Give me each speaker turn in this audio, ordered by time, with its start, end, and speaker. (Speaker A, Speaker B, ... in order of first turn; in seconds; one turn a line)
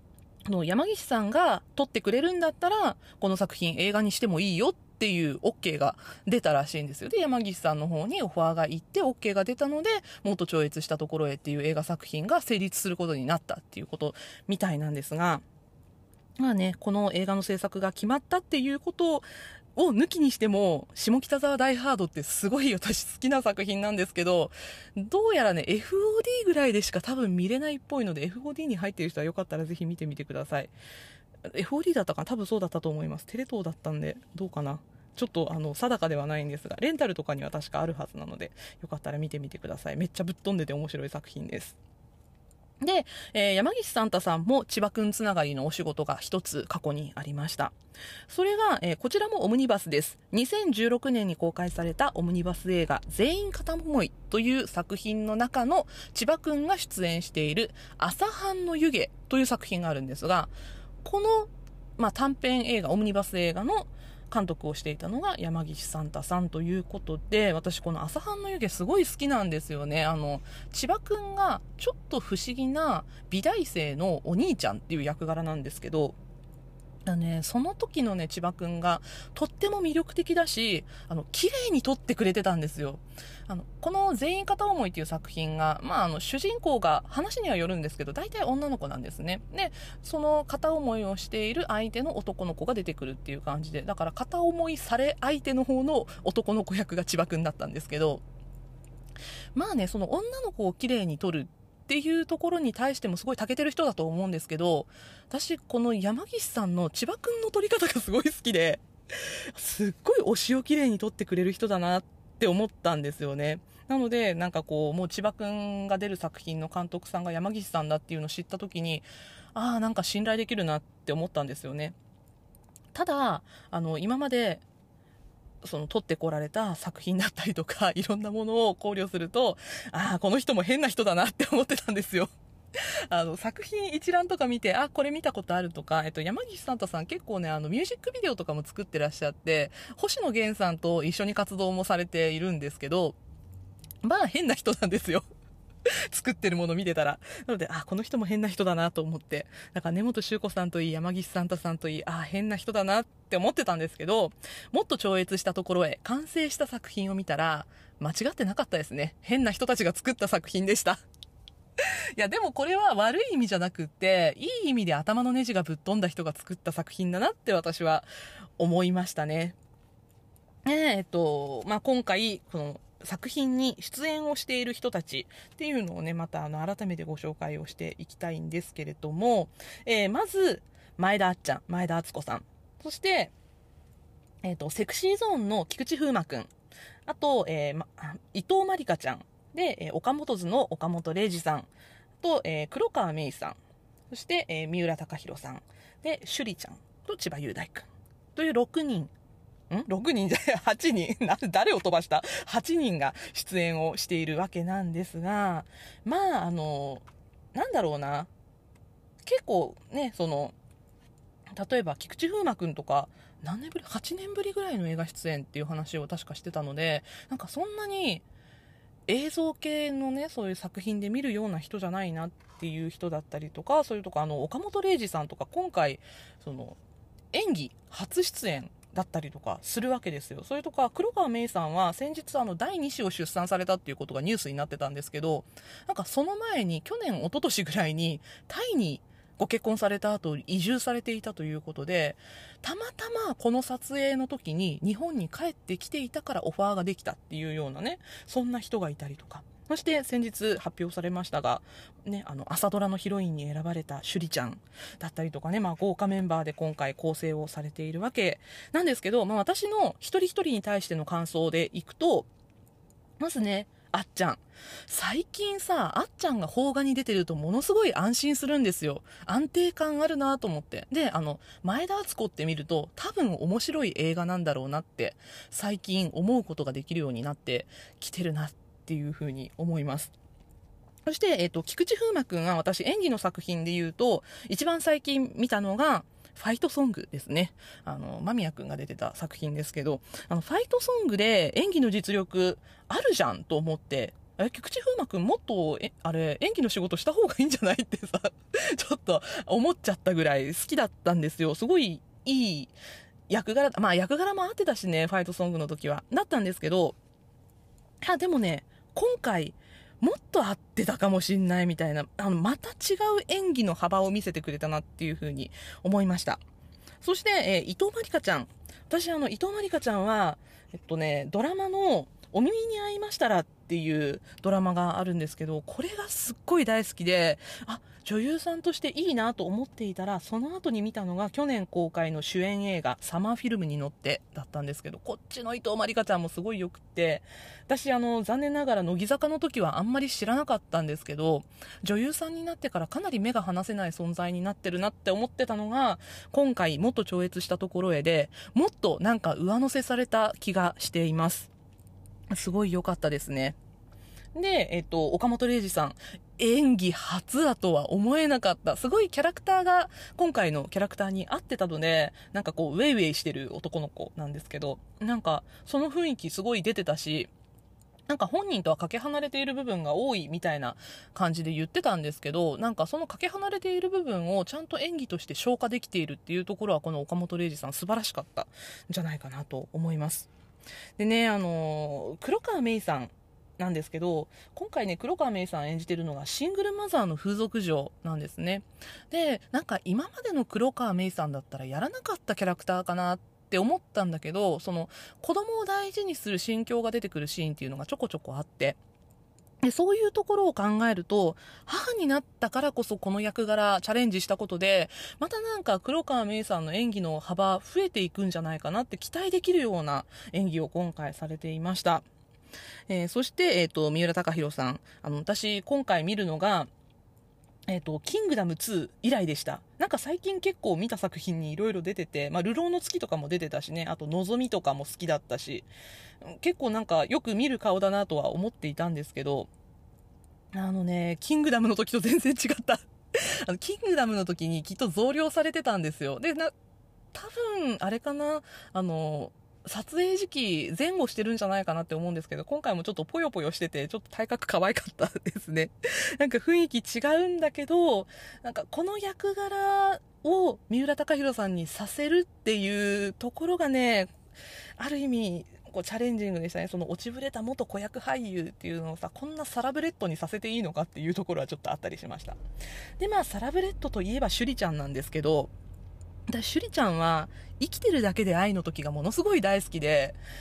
Speaker A: 0.5-15.4
Speaker A: 16.4-30.7
Speaker A: 31.5-41.8
Speaker A: 42.8-47.7
Speaker A: 48.3-76.2
Speaker A: 77.0-98.2
Speaker A: 99.5-122.0
Speaker A: 122.9-124.6
Speaker A: 125.6-132.3
Speaker A: 132.8-143.2
Speaker A: 144.0-145.2
Speaker A: 145.8-161.0
Speaker A: 162.2-168.1
Speaker A: 168.6-169.6
Speaker A: 170.7-183.3
Speaker A: 184.4-186.5
Speaker A: 187.1-191.7
Speaker A: 192.2-193.6
Speaker A: 194.1-199.1
Speaker A: 199.7-208.3
Speaker A: 209.2-210.5
Speaker A: 211.5-218.2
Speaker A: 219.1-226.8
Speaker A: 227.3-262.3
Speaker A: 263.2-280.1
Speaker A: 281.1-302.7
Speaker A: 303.3-306.9
Speaker A: 308.0-316.4
Speaker A: 317.0-351.5
Speaker A: 352.3-353.6
Speaker A: 354.3-367.3
Speaker A: 368.1-380.3
Speaker A: 381.0-398.8
Speaker A: 399.6-412.1
Speaker A: 412.9-416.7
Speaker A: 417.7-425.7
Speaker A: 426.2-429.5
Speaker A: 430.5-436.5
Speaker A: 437.1-454.1
Speaker A: 454.8-462.4
Speaker A: 463.0-465.5
Speaker A: 466.3-470.2